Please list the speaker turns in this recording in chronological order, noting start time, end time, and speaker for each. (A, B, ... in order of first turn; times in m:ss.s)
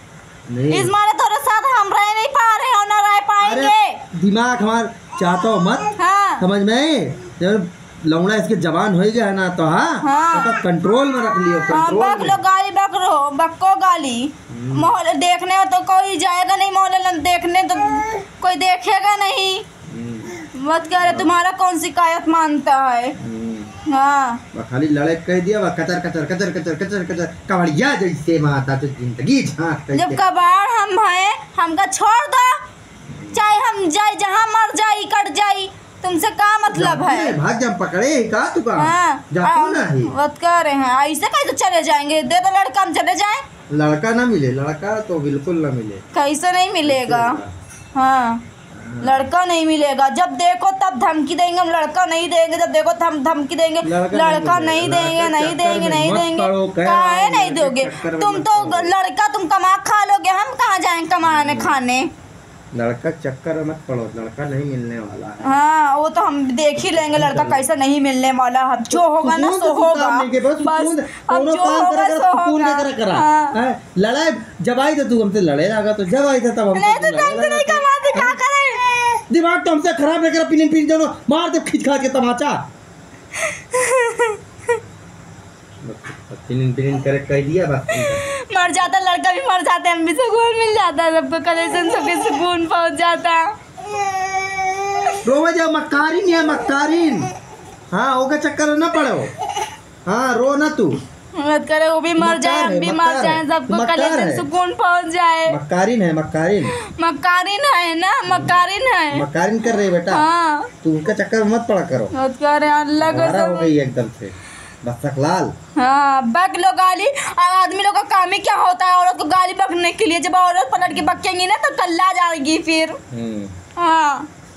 0:00.5-0:00.9 A
0:00.7-0:04.0 B
0:03.4-0:12.4 A
0:06.0-0:06.4 B
0:10.0-0:10.6 B
0:11.7-0:19.6 B
0:14.5-0:14.9 A
0:19.9-0:20.4 A
0:20.5-0:23.2 B
0:21.0-0:21.3 A
0:23.2-0:23.8 A
0:23.8-0:24.4 B
0:24.5-0:30.2 A
0:29.9-0:32.6 B
0:33.1-0:33.4 A
0:33.3-0:37.4 B
0:36.7-0:40.1 A
0:38.8-0:43.4 B
0:43.7-0:46.0 A
0:46.1-0:47.4 B
0:46.8-0:47.5 A
0:47.9-0:48.4 B
0:48.7-0:49.2 A
0:49.0-1:02.1 B
0:53.8-0:58.9 A
1:01.2-1:01.7 A
1:02.7-1:05.6 A
1:05.4-1:13.6 B
1:06.8-1:07.6 A
1:08.9-1:18.4 A
1:16.7-1:18.8 B
1:19.1-1:22.6 A
1:23.3-1:24.4 B
1:25.8-1:28.9 A
1:28.0-1:35.2 B
1:35.2-1:37.3 A
1:37.9-1:39.3 A
1:40.1-1:41.0 A
1:41.3-1:45.6 B
1:42.2-1:44.4 A
1:45.5-1:46.7 A
1:46.7-1:49.2 B
1:48.3-1:50.2 A
1:49.9-1:50.7 B
1:50.8-1:52.1 A
1:52.1-1:53.7 B
1:53.0-1:55.5 A
1:55.8-2:03.0 B
2:00.9-2:01.1 A
2:03.1-2:03.6 A
2:03.8-2:04.3 B